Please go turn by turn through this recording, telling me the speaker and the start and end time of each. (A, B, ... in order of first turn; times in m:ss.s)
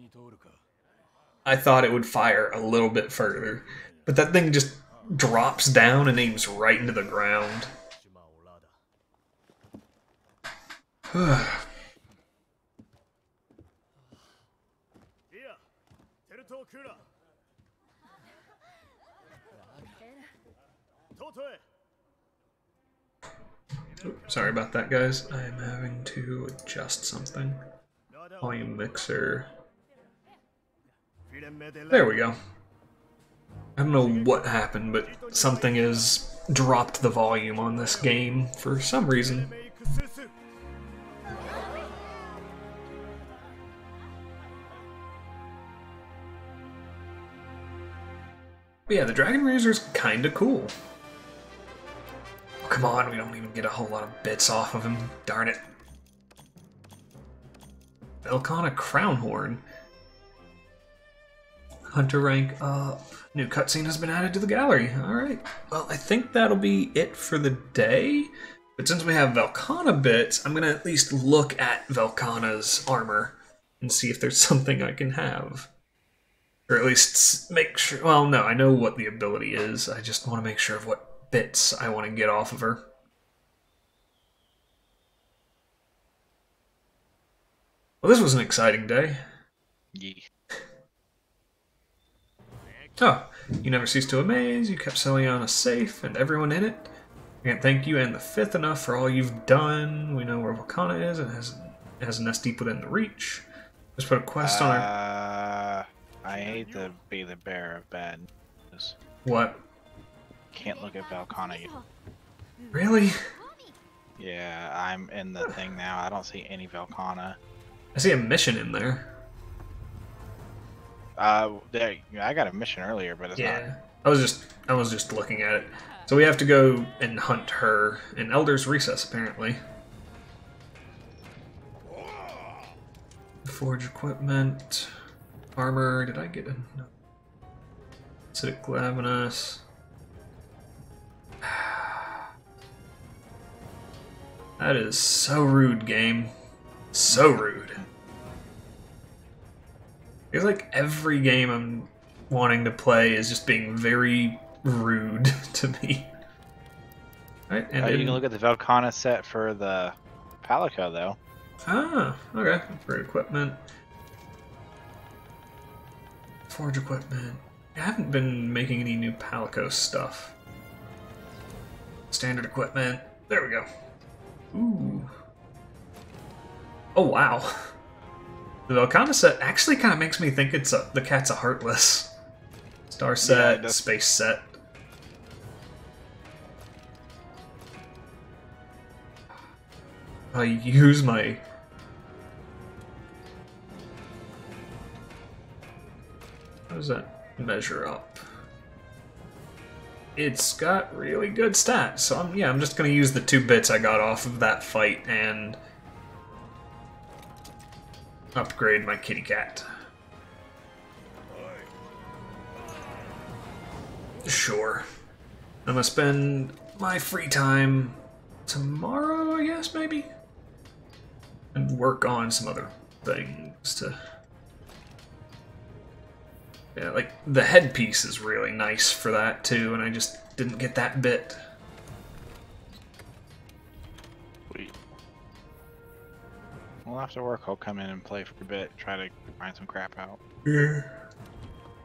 0:01.5-0:07.7 A
0:11.1-0:11.6 A
0:24.0-0:27.6 A
0:28.4-0:29.5 A
0:31.9-0:32.4 A
0:33.8-0:39.5 A
0:48.9-0:50.7 A
0:52.6-0:55.6 A
0:58.2-0:59.6 A
1:01.9-1:15.7 A
1:16.7-1:22.8 A
1:28.0-1:29.2 A
1:30.0-1:30.3 B
1:33.0-1:36.9 A
1:37.4-1:43.4 A
1:44.0-1:44.9 A
1:44.4-1:49.0 B
1:49.2-1:49.6 A
1:50.5-1:51.7 B
1:52.7-1:53.2 A
1:54.2-1:57.4 B
1:58.0-1:59.1 A
2:01.2-2:03.6 B
2:03.4-2:09.6 A
2:13.5-2:14.9 A
2:15.6-2:16.9 A
2:18.3-2:19.6 A
2:21.4-2:22.2 A
2:24.6-2:26.3 A
2:26.9-2:27.8 A
2:30.3-2:36.1 A
2:37.5-2:38.2 A
2:37.8-2:41.2 B
2:41.7-2:43.6 A
2:46.5-2:50.4 A
2:52.1-2:53.7 A
2:54.5-2:55.1 A
2:57.0-2:57.6 A
2:58.7-3:02.1 A
3:02.9-3:04.6 A
3:03.2-3:03.9 B
3:10.3-3:11.4 A
3:16.7-3:18.2 A
3:20.2-3:25.6 A
3:28.4-3:29.6 A
3:34.2-3:34.9 A
3:35.7-3:40.1 A
3:41.5-3:44.0 A
3:46.8-3:51.4 A
3:56.9-4:00.2 B
4:00.5-4:01.0 A